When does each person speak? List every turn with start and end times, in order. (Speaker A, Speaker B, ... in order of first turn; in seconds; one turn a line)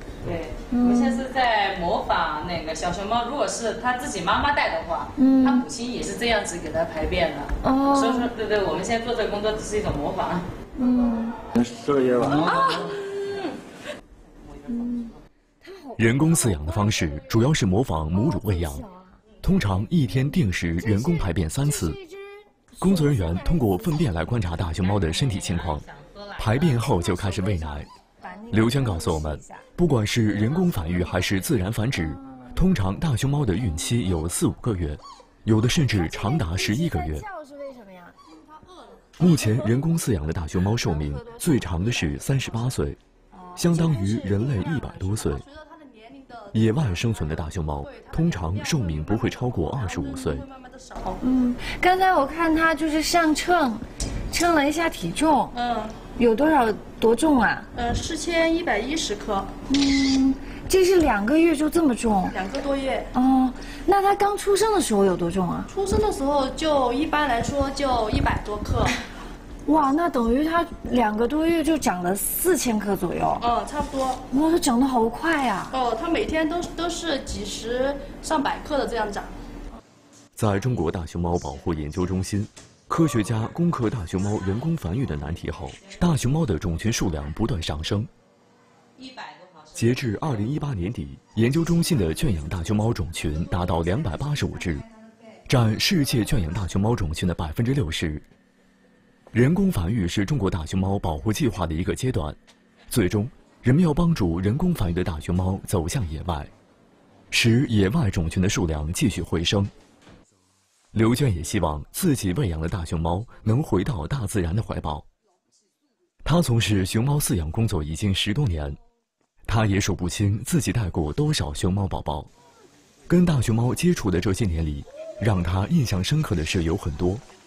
Speaker A: 0.2-10.5
Speaker B: 0.7-1.2
Speaker B: 5.2-5.7
Speaker B: 7.6-8.3
Speaker B: 10.8-11.4
Speaker A: 12.1-13.6
Speaker B: 12.2-13.0
Speaker A: 14.4-15.2
Speaker B: 14.7-17.1
Speaker C: 16.0-18.8
Speaker B: 18.1-19.2
Speaker C: 19.4-22.0
Speaker B: 20.8-24.2
Speaker C: 22.8-25.8
Speaker A: 24.7-27.8
Speaker C: 26.4-27.9
Speaker B: 28.2-29.7
Speaker C: 28.5-37.2
Speaker B: 35.9-38.1
Speaker C: 39.2-43.0
Speaker B: 41.0-41.8
Speaker D: 43.3-47.0
Speaker C: 43.5-45.4
Speaker C: 46.5-50.5
Speaker D: 47.8-51.2
Speaker B: 51.2-55.5
Speaker D: 55.5-56.0
Speaker B: 56.1-57.7
Speaker D: 57.7-59.5
Speaker B: 59.7-62.4
Speaker D: 62.3-63.1
Speaker B: 63.1-65.7
Speaker D: 65.7-69.0
Speaker B: 69.7-73.5
Speaker D: 73.4-74.2
Speaker B: 74.3-75.7
Speaker D: 75.7-79.3
Speaker C: 80.3-88.1
Speaker C: 89.7-94.8
Speaker C: 95.5-98.2
Speaker C: 99.3-102.4
Speaker C: 102.9-106.5
Speaker C: 107.3-109.7
Speaker C: 110.9-115.0
Speaker C: 116.2-118.8
Speaker C: 119.5-122.3
Speaker C: 123.1-127.2